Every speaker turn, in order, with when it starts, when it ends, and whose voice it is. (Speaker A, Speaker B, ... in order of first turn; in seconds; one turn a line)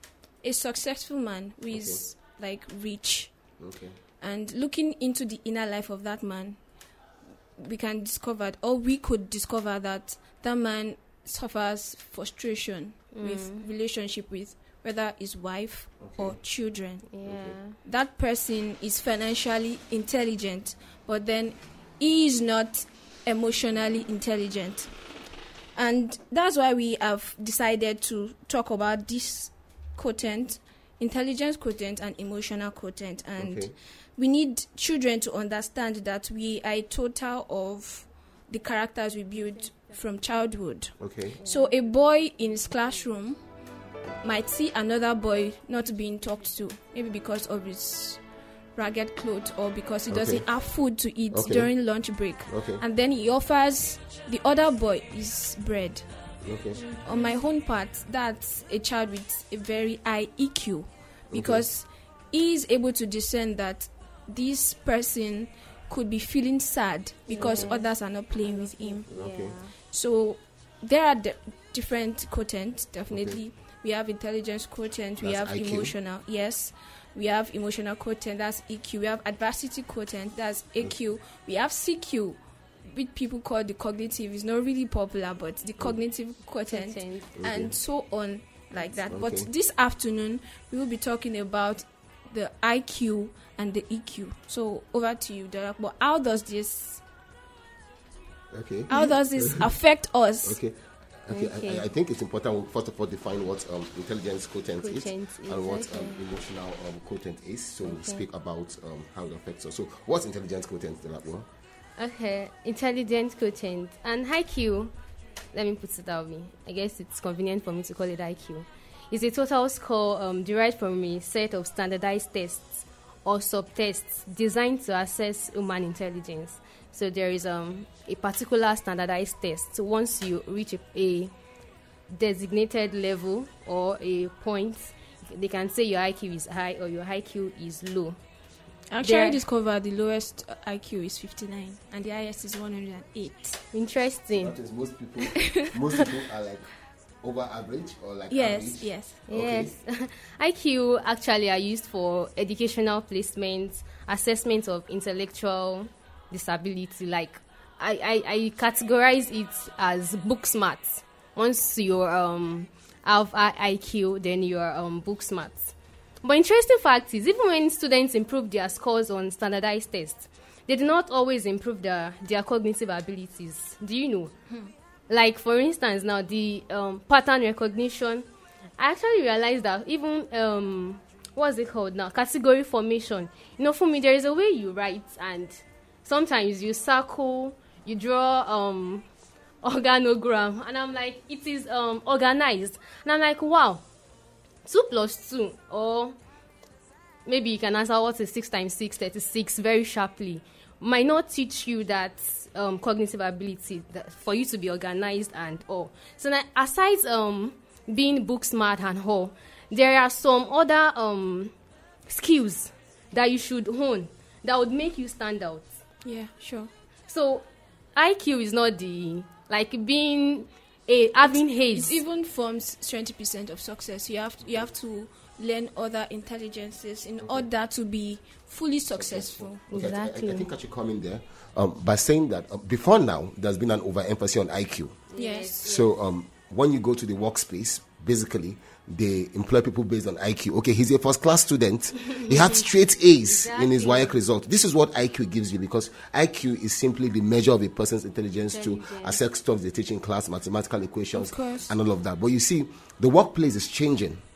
Speaker A: 0.4-3.3
Speaker B: 1.7-2.0
Speaker B: 3.6-3.9
Speaker A: 4.2-6.6
Speaker A: 7.6-17.1
Speaker C: 13.1-13.6
Speaker B: 16.0-16.4
Speaker C: 17.1-17.8
Speaker B: 17.2-17.6
Speaker A: 17.8-24.9
Speaker A: 25.7-43.4
Speaker B: 33.4-33.7
Speaker B: 41.0-41.4
Speaker A: 44.2-48.2
Speaker A: 48.7-56.0
Speaker B: 50.1-50.5
Speaker B: 51.3-51.7
Speaker B: 52.5-52.8
Speaker B: 56.4-56.9
Speaker A: 57.0-69.1
Speaker B: 61.3-61.7
Speaker C: 67.3-67.9
Speaker B: 67.4-67.7
Speaker C: 68.5-69.7
Speaker B: 69.1-69.6
Speaker A: 69.8-97.0
Speaker B: 73.1-73.4
Speaker B: 75.2-76.0
Speaker C: 86.7-87.3
Speaker B: 87.4-87.7
Speaker B: 89.1-89.5
Speaker B: 98.5-99.7
Speaker A: 98.9-100.6
Speaker B: 100.4-111.5
Speaker C: 101.3-101.9
Speaker C: 104.8-106.2
Speaker C: 107.8-108.2
Speaker C: 112.0-114.9
Speaker C: 115.5-131.3
Speaker C: 132.1-138.2
Speaker A: 138.9-143.6
Speaker C: 139.0-139.4
Speaker C: 143.7-144.5
Speaker B: 144.4-146.7
Speaker A: 145.3-145.7
Speaker B: 147.2-149.7
Speaker A: 148.3-149.2
Speaker C: 149.3-174.3
Speaker C: 175.1-178.3
Speaker C: 178.8-189.1
Speaker C: 189.6-193.8
Speaker C: 194.6-196.2
Speaker C: 197.2-211.5
Speaker C: 212.1-215.7
Speaker A: 216.0-216.7
Speaker C: 217.1-222.0
Speaker A: 221.3-229.6
Speaker B: 228.9-235.0
Speaker C: 229.7-230.5
Speaker C: 235.1-235.9
Speaker A: 235.2-235.6
Speaker B: 235.6-254.2
Speaker C: 242.1-242.5
Speaker C: 243.2-244.1
Speaker C: 248.5-249.2
Speaker A: 251.1-251.7